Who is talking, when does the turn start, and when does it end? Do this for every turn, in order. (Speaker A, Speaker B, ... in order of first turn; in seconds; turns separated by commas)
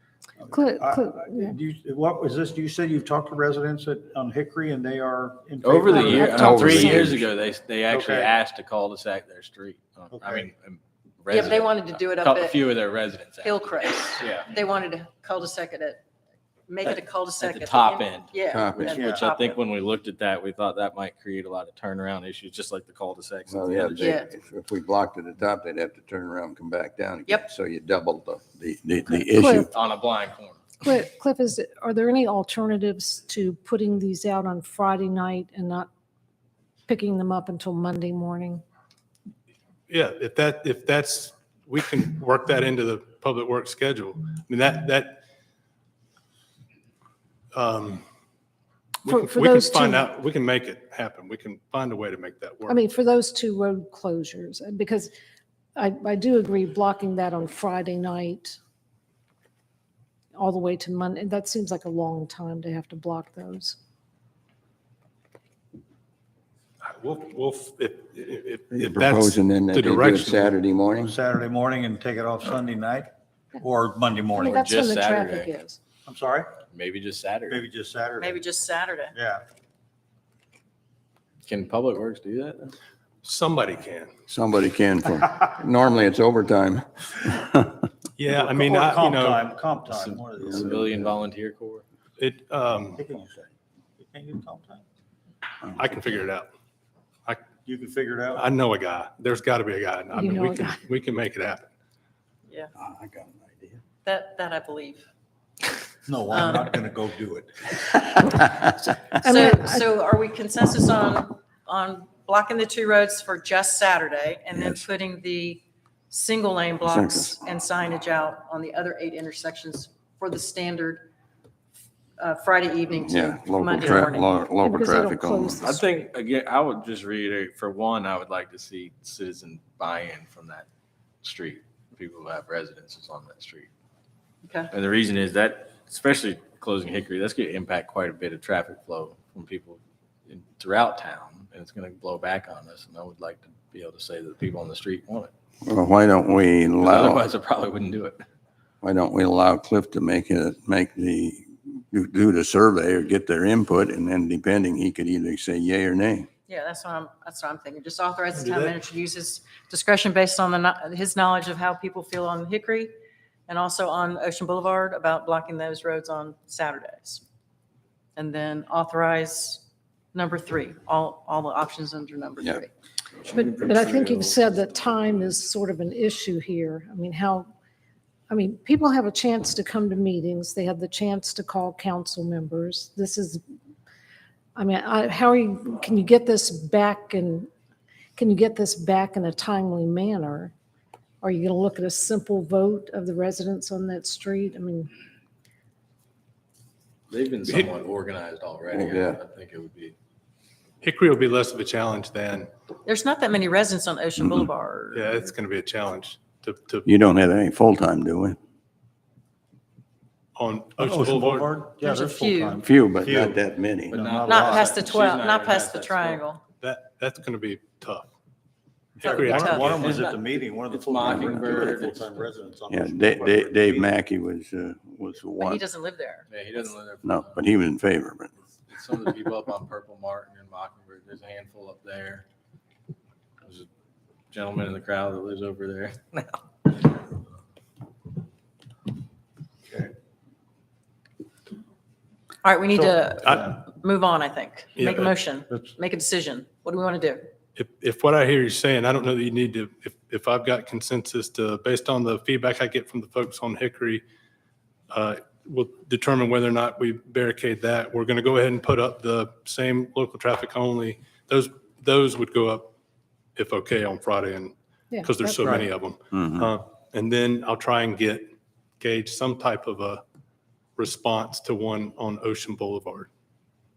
Speaker A: 0.4-7.2, Speaker B: 0.5-1.6, Speaker C: 5.6-14.5, Speaker B: 5.9-7.1, Speaker D: 6.3-7.1, Speaker A: 7.9-8.3, Speaker A: 10.1-10.5, Speaker E: 11.3-12.6, Speaker E: 13.4-16.0, Speaker E: 16.7-19.6, Speaker C: 16.8-24.2, Speaker D: 18.5-18.9, Speaker A: 18.9-19.3, Speaker D: 23.5-29.7, Speaker E: 24.0-24.3, Speaker B: 29.1-29.7, Speaker C: 29.7-30.8, Speaker B: 30.8-35.9, Speaker B: 36.9-38.6, Speaker F: 39.9-45.2, Speaker F: 47.5-48.0, Speaker F: 49.0-52.8, Speaker B: 49.0-50.1, Speaker B: 52.7-55.1, Speaker B: 55.8-58.6, Speaker B: 60.3-63.8, Speaker F: 66.8-70.5, Speaker D: 68.7-71.1, Speaker A: 71.0-74.7, Speaker B: 74.4-75.8, Speaker C: 74.4-75.5, Speaker A: 76.0-76.5, Speaker C: 76.7-77.6, Speaker A: 77.5-78.4, Speaker E: 78.2-79.1, Speaker A: 79.1-79.4, Speaker C: 81.5-82.7, Speaker F: 83.2-84.1, Speaker D: 84.3-87.8, Speaker F: 88.2-89.4, Speaker A: 88.3-91.1, Speaker C: 89.9-91.8, Speaker F: 92.2-93.0, Speaker A: 92.9-94.8, Speaker F: 95.8-96.5, Speaker A: 97.6-98.5, Speaker F: 98.3-101.7, Speaker B: 100.1-100.8, Speaker D: 102.8-103.8, Speaker E: 104.0-105.0, Speaker A: 106.1-108.7, Speaker E: 106.3-106.7, Speaker B: 109.0-109.8, Speaker E: 109.2-121.1, Speaker D: 114.5-114.8, Speaker D: 116.8-117.4, Speaker E: 122.2-124.3, Speaker D: 122.9-125.6, Speaker B: 124.6-125.9, Speaker C: 125.6-130.7, Speaker C: 131.2-133.7, Speaker E: 134.4-134.7, Speaker C: 134.7-145.3, Speaker D: 145.6-147.2, Speaker C: 146.8-148.2, Speaker D: 148.8-156.3, Speaker E: 156.5-162.9, Speaker F: 158.3-158.7, Speaker E: 163.5-167.2, Speaker E: 168.2-172.7, Speaker C: 173.3-175.3, Speaker B: 173.3-177.5, Speaker B: 178.3-183.4, Speaker B: 184.6-187.5, Speaker B: 188.2-190.5, Speaker B: 191.2-194.9, Speaker C: 197.1-199.9, Speaker D: 198.7-199.2, Speaker F: 200.8-202.5, Speaker E: 202.8-205.2, Speaker D: 204.2-204.5, Speaker F: 204.9-206.8, Speaker D: 206.9-208.4, Speaker F: 210.3-211.6, Speaker A: 210.8-214.8, Speaker E: 211.8-212.6, Speaker D: 212.6-214.0, Speaker C: 213.9-216.2, Speaker E: 214.2-216.4, Speaker F: 216.6-218.1, Speaker A: 219.0-223.9, Speaker F: 219.0-219.8, Speaker E: 219.0-220.2, Speaker C: 220.7-222.2, Speaker D: 222.7-225.6, Speaker E: 225.4-226.2, Speaker C: 226.3-227.4, Speaker D: 227.0-228.3, Speaker C: 228.7-232.2, Speaker C: 234.3-236.7, Speaker E: 242.4-247.2, Speaker A: 242.7-243.6, Speaker F: 244.8-245.1, Speaker A: 245.5-245.8, Speaker F: 247.6-254.0, Speaker F: 254.9-262.7, Speaker F: 263.4-270.0, Speaker B: 264.9-265.6, Speaker A: 265.4-265.6, Speaker D: 266.1-266.5, Speaker F: 270.8-273.1